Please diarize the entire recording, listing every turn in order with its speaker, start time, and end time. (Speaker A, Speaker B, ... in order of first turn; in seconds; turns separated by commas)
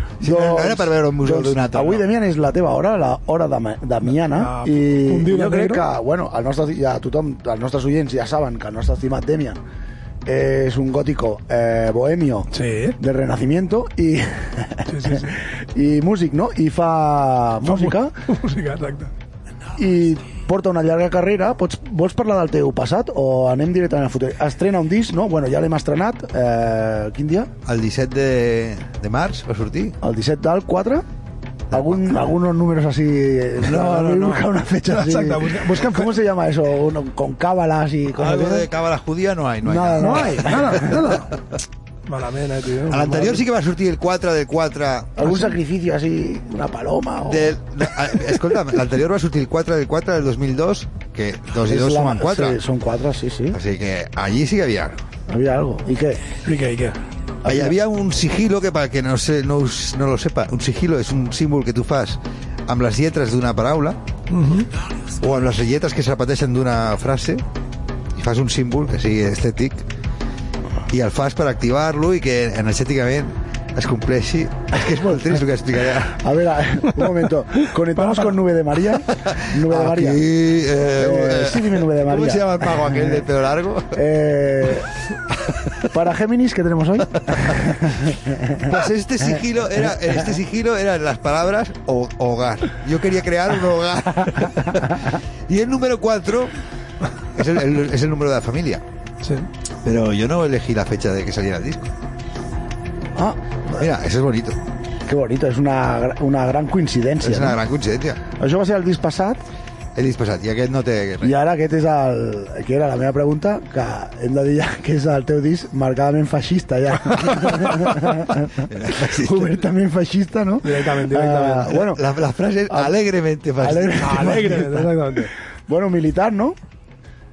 Speaker A: 0.2-2.1, Speaker B: 0.2-9.6, Speaker C: 4.3-5.8, Speaker B: 10.2-18.1, Speaker C: 12.5-13.0, Speaker C: 14.9-15.3, Speaker C: 17.6-19.1, Speaker B: 19.8-27.5, Speaker A: 27.6-29.9, Speaker B: 30.0-31.0, Speaker B: 31.7-38.7, Speaker A: 31.7-32.0, Speaker A: 33.6-34.5, Speaker C: 34.9-36.2, Speaker A: 38.2-40.8, Speaker B: 39.6-41.0, Speaker C: 40.0-41.3, Speaker C: 42.1-43.4, Speaker A: 42.9-45.4, Speaker B: 45.2-47.6, Speaker A: 47.3-52.6, Speaker B: 51.6-53.6, Speaker A: 53.5-55.0, Speaker B: 55.3-56.3, Speaker C: 56.4-57.0, Speaker B: 57.4-57.8, Speaker A: 57.4-64.0, Speaker C: 64.3-64.7, Speaker A: 65.2-67.4, Speaker A: 68.2-69.8, Speaker A: 70.9-76.2, Speaker B: 76.0-80.2, Speaker A: 79.2-84.0, Speaker B: 81.0-83.2, Speaker B: 83.9-84.9, Speaker A: 85.5-85.8, Speaker B: 85.8-88.8, Speaker A: 87.3-87.6, Speaker A: 88.6-96.5, Speaker A: 97.3-98.8, Speaker C: 99.2-99.5, Speaker A: 99.8-101.9, Speaker B: 103.1-103.8, Speaker A: 103.8-104.6, Speaker B: 105.0-107.6, Speaker A: 107.2-108.2, Speaker B: 108.3-109.4, Speaker A: 110.0-111.3, Speaker B: 111.2-122.0, Speaker A: 117.7-119.6, Speaker C: 120.6-121.8, Speaker A: 121.8-124.4, Speaker B: 123.6-126.6, Speaker C: 123.9-125.3